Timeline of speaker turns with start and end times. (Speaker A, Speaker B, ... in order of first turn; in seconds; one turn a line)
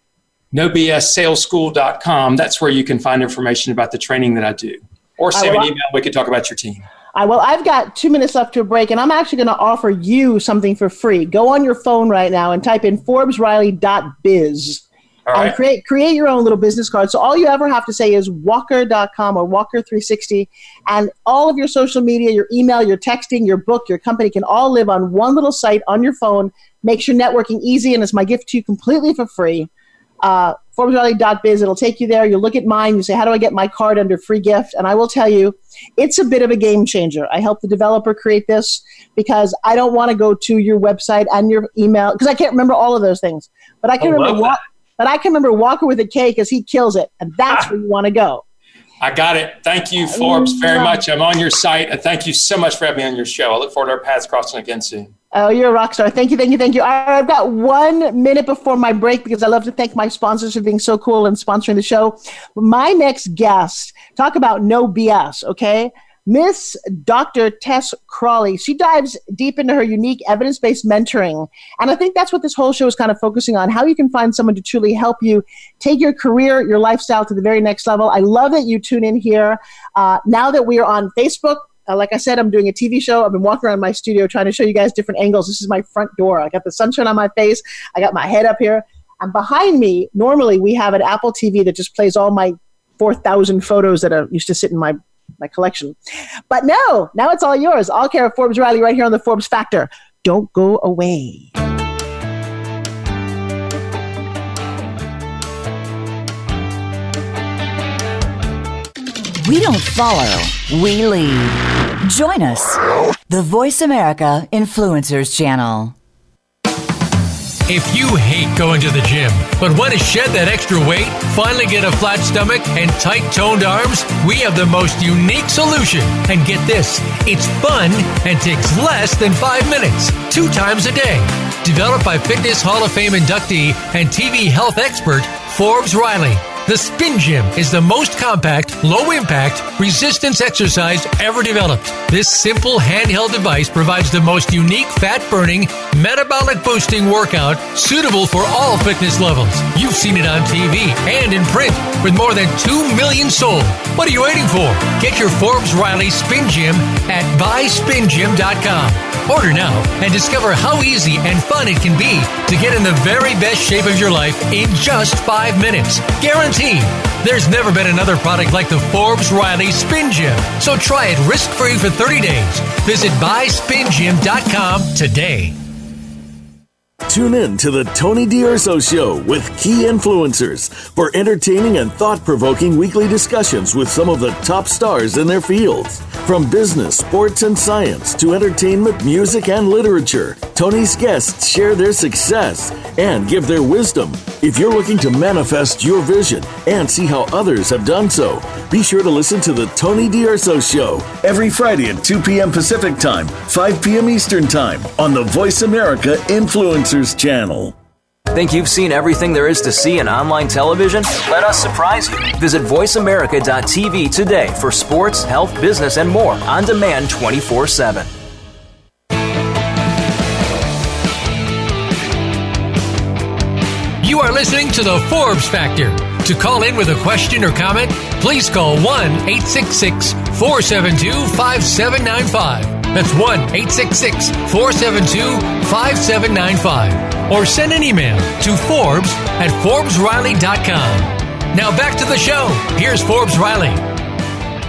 Speaker A: 0.5-6.9
Speaker B: 5.3-5.7
Speaker B: 7.1-29.7
Speaker A: 15.3-15.6
Speaker B: 30.2-48.4
Speaker A: 44.0-44.6
Speaker A: 49.0-55.1
Speaker B: 50.1-51.0
Speaker B: 55.3-96.0
Speaker B: 96.5-101.5
Speaker C: 109.4-116.0
Speaker D: 117.7-175.6
Speaker E: 177.1-207.8
Speaker F: 208.3-218.1
Speaker D: 224.0-243.8